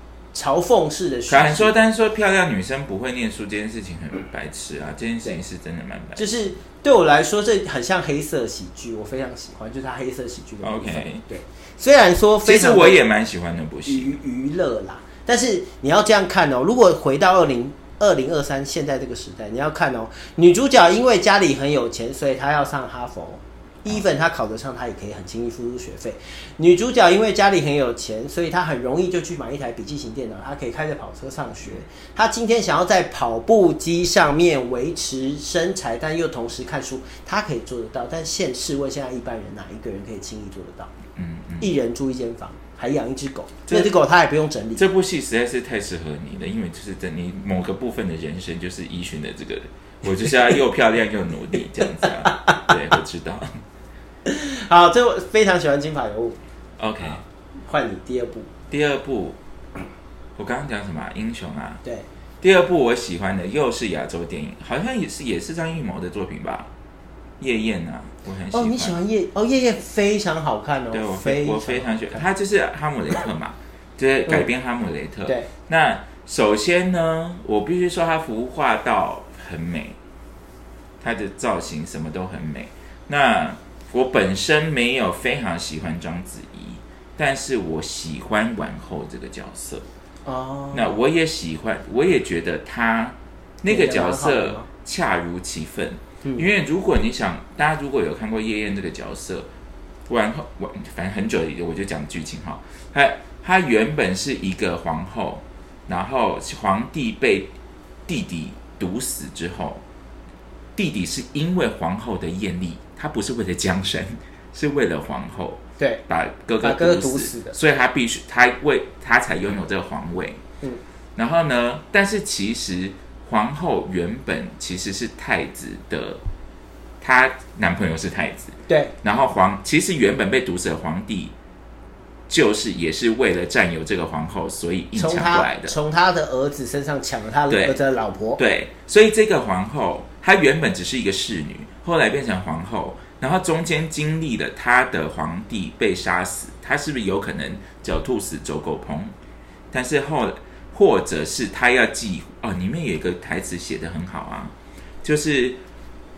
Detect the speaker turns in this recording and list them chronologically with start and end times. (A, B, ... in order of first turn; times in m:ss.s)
0:00.3-0:01.7 A
0:01.3-0:06.3 B
0:06.2-0:13.0 A
0:10.6-0:11.2 B
0:12.4-0:14.2 B
0:13.8-0:40.9 A
0:41.1-0:41.7 B
0:41.6-0:44.8 A
0:44.8-0:53.5 B
0:52.2-0:52.6 A
0:54.2-0:56.4 A
0:56.8-0:57.2 B
0:57.6-0:58.5 A
0:58.7-0:59.4 B
1:00.4-1:01.8 B
1:02.4-1:06.7 B
1:07.4-1:08.9 B
1:08.5-1:12.2 A
1:10.9-1:20.0 B
1:21.0-1:29.8 B
1:30.2-1:30.9 A
1:30.7-1:39.5 B
1:33.6-1:34.7 A
1:40.1-1:47.5 B
1:48.1-1:49.8 B
1:50.8-2:00.4 B
1:56.6-1:57.6 A
2:01.2-2:06.2 B
2:07.0-2:11.3 B
2:08.7-2:08.9 A
2:12.3-2:15.7 B
2:14.9-2:18.4 A
2:17.5-2:17.8 B
2:18.4-2:29.1 B
2:29.7-2:35.6 B